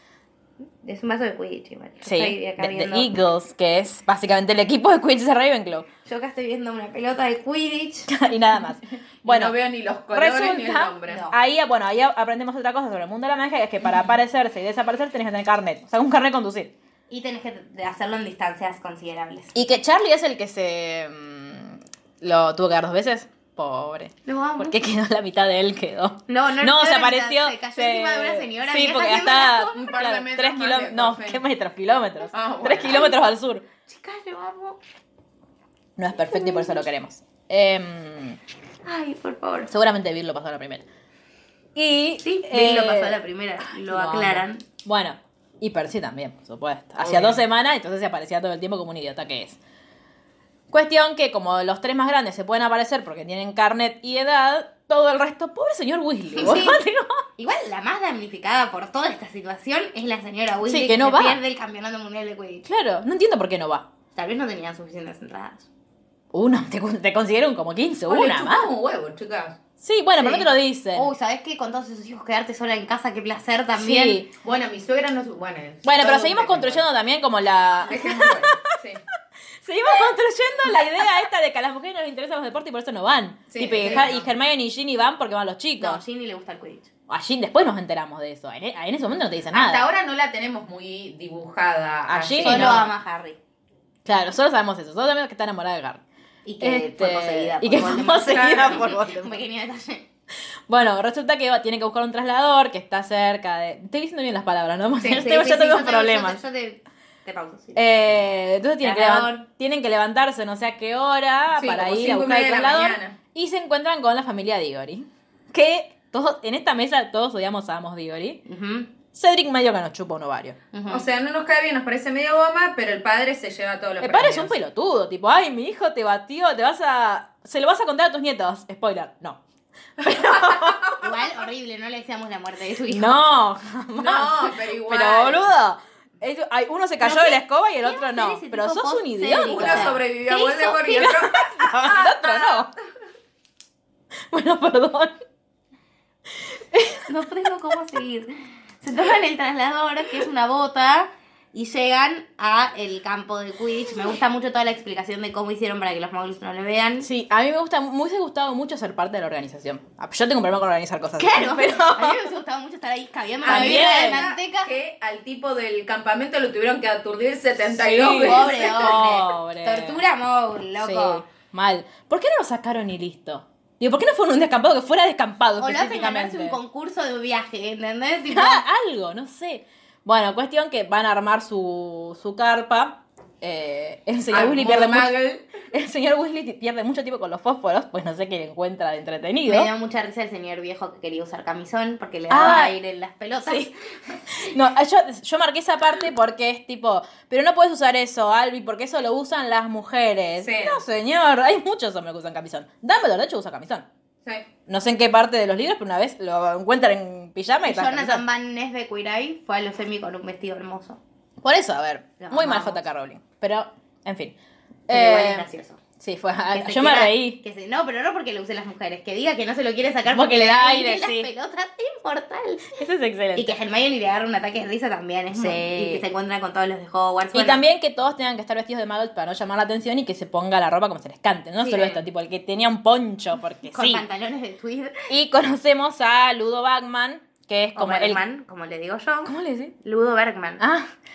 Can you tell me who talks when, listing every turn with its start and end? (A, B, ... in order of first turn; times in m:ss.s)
0:00.8-0:03.1 A
0:02.0-0:05.9 B
0:06.1-0:08.1 A
0:08.1-0:09.6 B
0:09.2-0:11.2 C
0:10.1-0:16.7 B
0:11.1-0:11.4 A
0:17.1-0:19.5 A
0:19.6-0:33.6 B
0:24.2-0:24.8 A
0:26.3-0:29.9 A
0:29.7-0:31.4 C
0:32.3-0:33.1 C
0:32.9-0:33.1 A
0:33.9-0:34.8 A
0:36.0-0:38.4 B
0:36.3-0:36.8 A
0:38.8-0:39.7 A
0:39.7-0:40.8 B
0:41.8-0:43.2 B
0:42.2-0:44.6 A
0:43.7-0:49.6 B
0:47.0-0:47.4 C
0:50.7-0:57.2 B
0:56.4-0:56.8 A
0:57.4-1:02.6 A
1:00.7-1:01.4 B
1:02.6-1:03.9 B
1:04.2-1:05.7 A
1:06.3-1:08.7 B
1:08.1-1:09.6 C
1:09.8-1:11.1 B
1:10.2-1:14.2 A
1:13.8-1:14.3 B
1:14.4-1:16.9 C
1:15.8-1:18.7 B
1:17.8-1:19.0 C
1:19.6-1:26.0 B
1:23.5-1:24.3 C
1:25.8-1:26.9 A
1:27.1-1:29.9 B
1:29.5-1:32.9 C
1:32.1-1:32.9 B
1:32.4-1:33.4 A
1:34.0-1:36.0 B
1:36.4-1:40.1 A
1:36.6-1:39.4 B
1:38.3-1:38.9 C
1:40.7-1:46.4 B
1:45.1-1:47.8 A
1:47.8-1:58.4 B
1:48.8-1:49.4 A
1:51.5-1:53.2 C
1:58.5-1:58.9 A
1:59.1-2:00.6 B
2:00.7-2:01.0 A
2:00.9-2:04.5 C
2:04.0-2:09.4 B
2:10.0-2:10.9 B
2:10.0-2:11.0 C
2:11.0-2:13.2 A
2:12.9-2:20.0 B
2:14.0-2:15.5 C
2:17.0-2:21.1 A
2:19.4-2:22.7 C
2:20.9-2:22.7 B
2:24.3-2:25.1 B
2:26.5-2:27.0 B
2:27.1-2:37.1 A
2:37.0-2:42.4 B
2:41.2-2:44.7 A
2:43.4-2:49.1 C
2:43.4-2:44.3 B
2:47.8-2:50.0 B
2:48.2-2:51.3 A
2:50.8-2:56.6 B
2:55.6-2:58.6 A
2:58.3-3:05.1 B
3:04.3-3:05.4 C
3:05.7-3:09.7 B
3:09.5-3:14.2 A
3:12.3-3:12.8 B
3:13.4-3:13.7 B
3:14.3-3:23.9 B
3:20.4-3:20.8 C
3:24.7-3:28.2 B
3:27.6-3:31.0 A
3:31.4-3:34.4 B
3:32.2-3:32.8 A
3:34.9-3:35.5 B
3:34.9-3:35.8 A
3:36.0-3:37.4 B
3:36.5-3:42.8 A
3:40.1-3:41.3 B
3:42.7-3:43.6 B
3:43.4-3:47.6 A
3:45.3-3:46.0 B
3:47.3-3:54.0 B
3:51.7-3:52.0 C
3:53.7-3:55.1 A
3:55.1-3:58.2 B
3:57.8-4:00.6 A
3:59.2-3:59.7 B
4:00.6-4:00.9 B